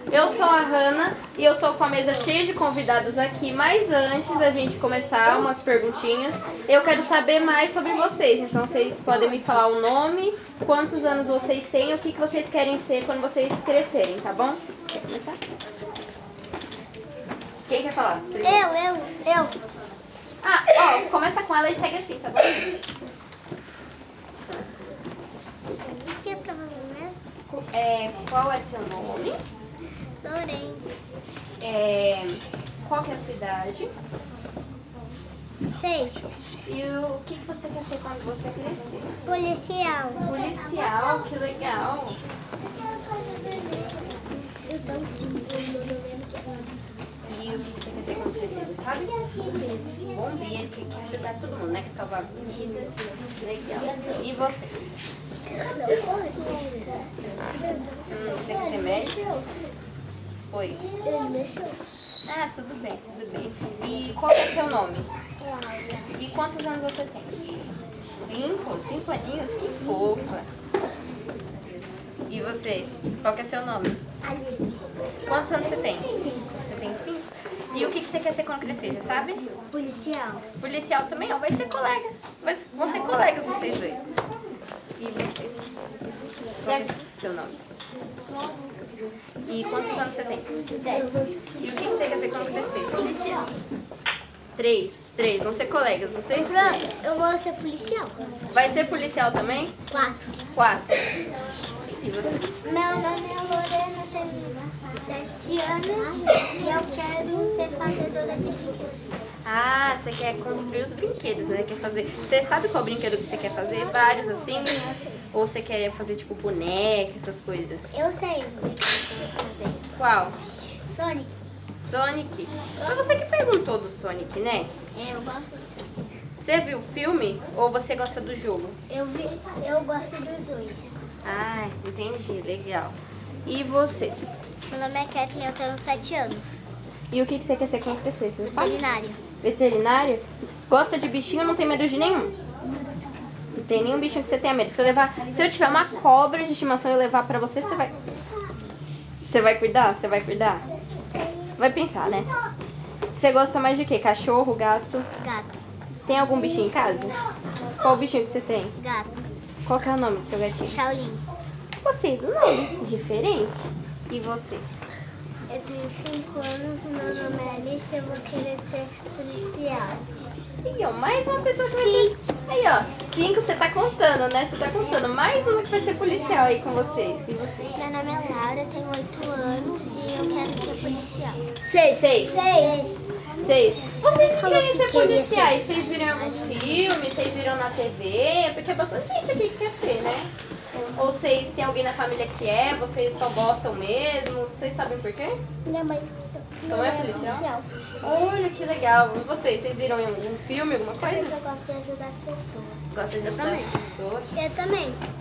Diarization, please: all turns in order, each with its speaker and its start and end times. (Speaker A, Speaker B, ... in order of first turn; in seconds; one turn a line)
Speaker A: 0.1-15.4
Speaker A: 17.7-18.7
Speaker B: 18.4-19.6
Speaker A: 20.4-22.9
Speaker A: 24.5-25.0
Speaker B: 26.1-27.2
Speaker A: 27.5-29.4
Speaker B: 30.2-31.0
Speaker A: 31.6-33.9
Speaker B: 35.6-36.4
Speaker A: 36.6-39.1
Speaker B: 39.2-40.3
Speaker A: 40.2-42.2
Speaker B: 43.0-46.8
Speaker A: 47.3-49.1
Speaker A: 49.9-54.9
Speaker B: 55.6-59.5
Speaker A: 58.1-59.2
Speaker A: 60.5-60.8
Speaker B: 61.0-61.9
Speaker A: 62.3-65.1
Speaker B: 65.4-66.1
Speaker A: 66.1-67.5
Speaker A: 68.1-70.5
Speaker A: 72.3-74.0
Speaker B: 74.2-74.9
Speaker A: 75.3-79.4
Speaker B: 76.2-76.4
Speaker B: 79.7-80.5
Speaker A: 80.6-84.0
Speaker A: 85.0-85.6
Speaker A: 86.6-87.6
Speaker A: 89.5-90.5
Speaker B: 90.8-92.0
Speaker A: 91.6-93.2
Speaker B: 92.9-93.5
Speaker A: 94.5-96.8
Speaker B: 96.3-98.2
Speaker A: 98.5-99.7
Speaker B: 99.9-100.3
Speaker A: 100.5-101.1
Speaker A: 101.8-102.5
Speaker B: 102.6-109.0
Speaker A: 109.5-117.8
Speaker B: 117.9-119.8
Speaker A: 120.0-120.4
Speaker B: 120.9-121.5
Speaker A: 121.8-124.7
Speaker B: 124.9-125.9
Speaker A: 126.4-128.8
Speaker B: 128.9-130.9
Speaker A: 131.2-134.2
Speaker B: 134.7-136.6
Speaker A: 137.1-138.8
Speaker B: 138.4-139.2
Speaker A: 139.4-142.4
Speaker A: 143.5-148.0
Speaker A: 149.2-150.7
Speaker B: 151.2-151.6
Speaker A: 151.6-152.3
Speaker A: 153.2-155.1
Speaker B: 155.2-155.6
Speaker A: 156.1-157.2
Speaker A: 157.8-158.8
Speaker B: 158.8-159.2
Speaker A: 159.7-160.8
Speaker B: 160.6-161.2
Speaker A: 161.8-164.7
Speaker B: 165.5-170.0
Speaker A: 170.6-177.7
Speaker B: 171.8-172.1
Speaker B: 177.8-181.4
Speaker A: 181.6-182.4
Speaker B: 182.2-183.1
Speaker A: 183.4-195.4
Speaker B: 184.0-185.8
Speaker B: 195.7-197.7
Speaker A: 196.7-197.5
Speaker A: 198.0-201.4
Speaker B: 201.0-203.8
Speaker A: 202.9-204.4
Speaker B: 204.3-205.0